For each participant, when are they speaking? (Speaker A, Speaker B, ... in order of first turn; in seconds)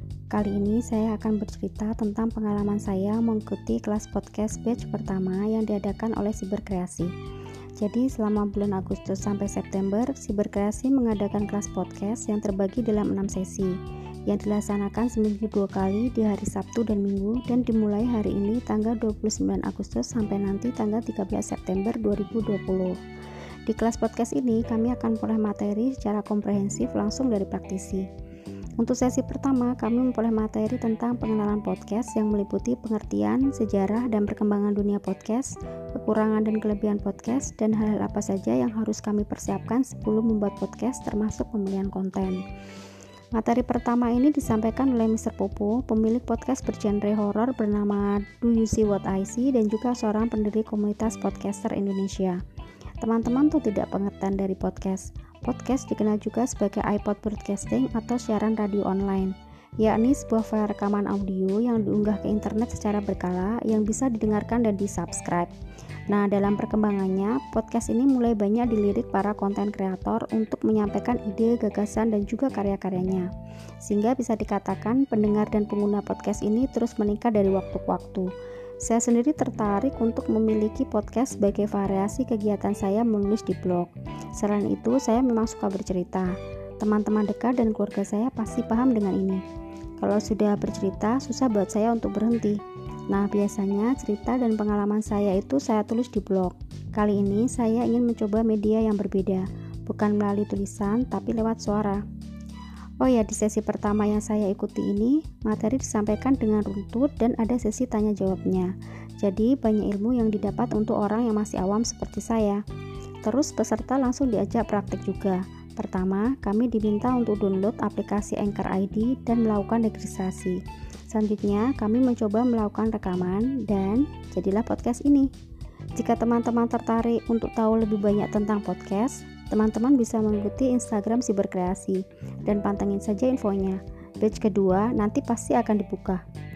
Speaker A: 0.3-7.1, 7.8-23.0, 23.7-28.1, 28.8-42.4, 43.4-52.4, 53.0-65.5, 66.1-73.3, 73.8-78.3, 78.8-89.4, 90.0-92.6, 93.1-102.0, 103.0-112.6, 113.2-125.3, 126.0-136.2